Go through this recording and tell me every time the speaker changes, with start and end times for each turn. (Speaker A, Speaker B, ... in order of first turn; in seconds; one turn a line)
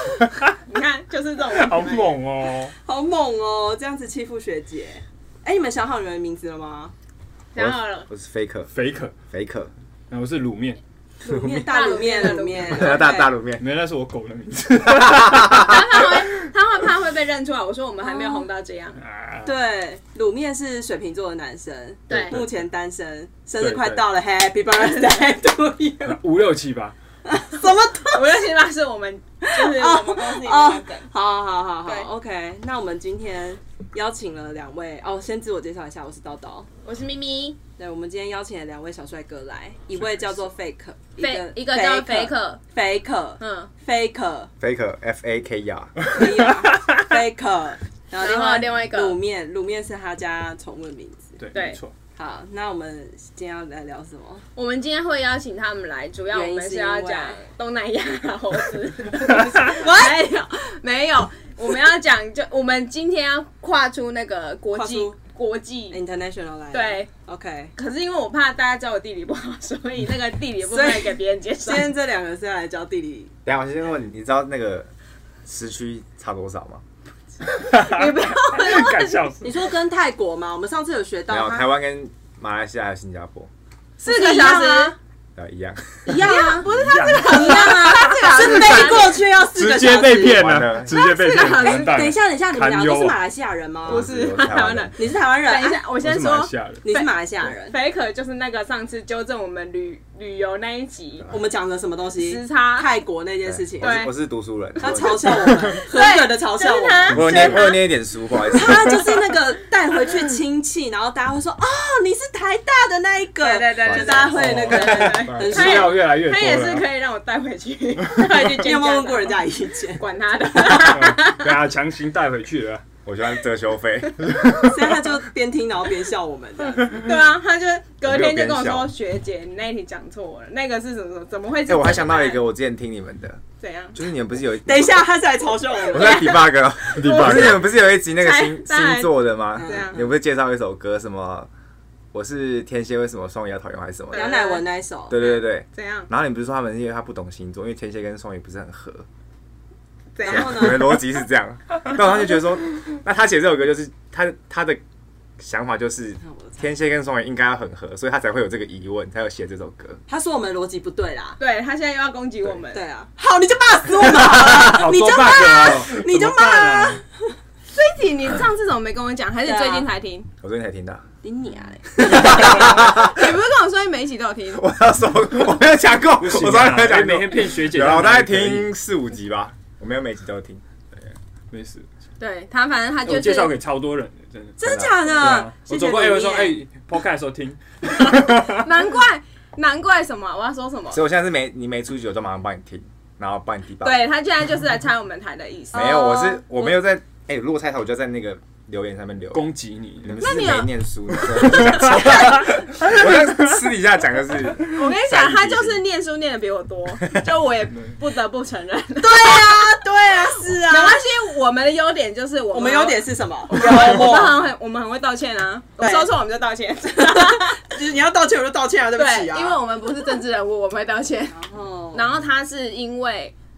Speaker A: 0.7-2.1
Speaker B: 1.5-2.7
Speaker C: 2.8-6.9
Speaker A: 7.5-8.1
Speaker D: 7.5-8.7
Speaker B: 8.7-9.1
Speaker D: 9.3-9.7
Speaker B: 10.1-10.8
Speaker C: 11.2-13.1
Speaker D: 11.2-13.6
Speaker A: 11.6-13.3
Speaker B: 13.6-16.0
Speaker D: 14.8-16.1
Speaker A: 15.6-19.0
Speaker C: 18.0-18.5
Speaker B: 19.0-19.5
Speaker C: 19.4-26.2
Speaker D: 22.1-22.4
Speaker B: 22.2-22.5
Speaker B: 23.6-24.0
Speaker B: 26.0-26.9
Speaker C: 27.2-28.3
Speaker A: 28.0-31.1
Speaker C: 29.4-36.7
Speaker A: 36.8-37.6
Speaker C: 37.8-44.5
Speaker A: 41.2-42.6
Speaker A: 43.4-43.7
Speaker D: 44.6-46.0
Speaker C: 46.1-51.4
Speaker A: 48.2-49.2
Speaker B: 51.4-51.9
Speaker A: 51.5-51.8
Speaker C: 52.1-54.4
Speaker A: 54.5-66.0
Speaker C: 56.3-57.4
Speaker C: 59.6-60.2
Speaker C: 64.7-65.2
Speaker C: 65.9-67.7
Speaker A: 66.7-67.1
Speaker A: 67.8-71.9
Speaker C: 70.6-73.3
Speaker D: 73.4-74.9
Speaker D: 75.5-76.8
Speaker A: 77.6-79.3
Speaker B: 77.6-79.5
Speaker C: 79.4-81.7
Speaker D: 81.3-83.5
Speaker A: 84.0-85.0
Speaker C: 84.0-85.0
Speaker D: 85.3-86.2
Speaker C: 86.0-90.4
Speaker A: 86.2-89.2
Speaker B: 86.6-93.2
Speaker D: 90.2-91.0
Speaker A: 90.9-92.1
Speaker C: 91.6-94.1
Speaker D: 93.8-95.0
Speaker A: 93.9-101.3
Speaker C: 95.0-95.8
Speaker B: 96.0-96.8
Speaker C: 96.8-97.7
Speaker C: 101.3-104.1
Speaker A: 102.2-102.9
Speaker D: 103.4-105.6
Speaker A: 103.8-104.1
Speaker C: 104.8-107.7
Speaker A: 105.8-107.9
Speaker D: 107.1-109.0
Speaker C: 108.5-116.0
Speaker A: 113.4-119.4
Speaker D: 113.8-115.2
Speaker B: 114.3-116.9
Speaker B: 118.2-118.5
Speaker C: 118.5-120.0
Speaker A: 120.0-121.5
Speaker B: 120.7-122.8
Speaker D: 123.0-124.3
Speaker C: 124.5-127.1
Speaker A: 126.9-132.4
Speaker D: 128.0-128.9
Speaker D: 131.7-133.4
Speaker A: 133.6-134.0
Speaker D: 133.9-135.0
Speaker C: 134.6-136.4
Speaker A: 135.9-140.0
Speaker D: 135.9-141.5
Speaker B: 137.0-137.5
Speaker C: 139.6-140.1
Speaker D: 142.1-144.4
Speaker A: 144.1-144.7
Speaker C: 144.1-145.2
Speaker D: 145.1-149.1
Speaker A: 145.2-146.1
Speaker A: 150.1-151.0
Speaker C: 150.2-151.0
Speaker D: 150.2-154.8
Speaker D: 155.4-160.0
Speaker C: 156.2-156.6
Speaker C: 160.1-161.4
Speaker A: 161.4-162.8
Speaker C: 162.7-167.3
Speaker B: 164.0-167.0
Speaker A: 167.7-170.3
Speaker C: 169.4-169.9
Speaker D: 170.4-171.0
Speaker C: 171.2-172.8
Speaker D: 172.0-173.3
Speaker A: 172.1-174.6
Speaker D: 174.5-180.6
Speaker B: 176.2-178.7
Speaker B: 181.0-181.8
Speaker A: 182.2-183.6
Speaker B: 183.0-188.6
Speaker C: 184.6-186.6
Speaker D: 184.6-184.9
Speaker A: 188.0-191.0
Speaker D: 190.9-194.0
Speaker A: 193.8-196.4
Speaker D: 195.7-199.5
Speaker C: 195.7-196.4
Speaker B: 199.3-200.2
Speaker D: 200.0-205.8
Speaker A: 200.2-202.4
Speaker B: 201.3-203.6
Speaker A: 204.7-209.7
Speaker C: 209.0-211.0
Speaker A: 210.6-217.6
Speaker C: 212.5-214.5
Speaker C: 215.8-216.1
Speaker C: 217.0-219.6
Speaker A: 218.9-221.4
Speaker C: 221.3-222.1
Speaker A: 221.9-223.3